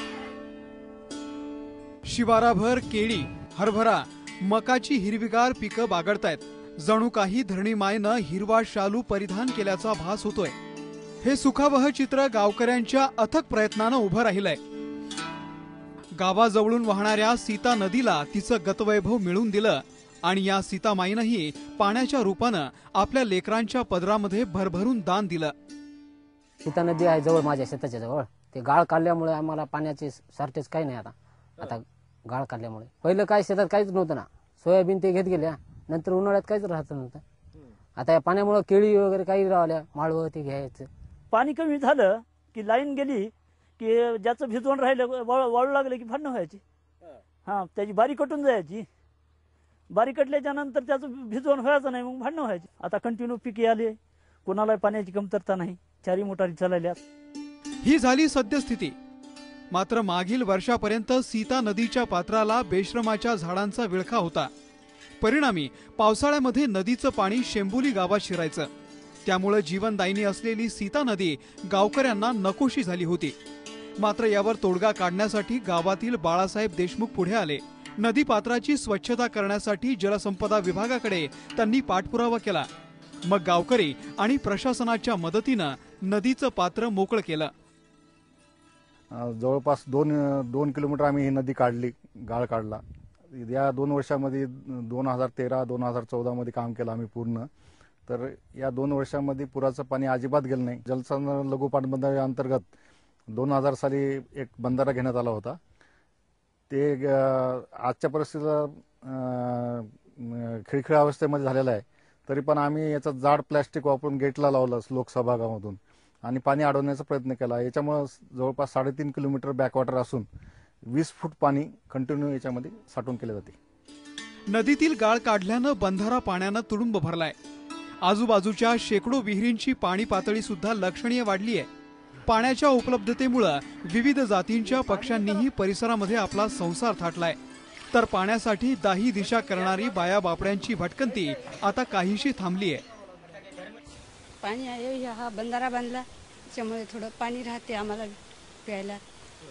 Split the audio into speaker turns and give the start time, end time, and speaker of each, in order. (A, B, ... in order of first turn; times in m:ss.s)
0:02.1-0:10.6 A
0:11.2-0:14.6 A
0:16.2-0:25.5 A
0:26.6-0:37.2 B
0:38.0-0:40.9 B
0:41.3-0:46.6 C
0:47.5-0:48.9 C
0:49.9-0:57.0 C
0:57.8-0:59.0 A
0:59.7-1:04.5 A
1:05.2-1:08.7 A
1:09.2-1:13.4 A
1:14.0-1:22.7 A
1:23.3-1:27.5 A
1:29.1-1:32.8 D
1:33.3-1:37.5 D
1:38.1-1:42.7 D
1:43.3-1:45.6 D
1:46.7-2:00.3 D
2:00.9-2:03.6 D
2:04.5-2:07.4 A
2:08.0-2:11.7 A
2:12.3-2:17.4 A
2:17.9-2:22.8 A
2:24.4-2:29.0 E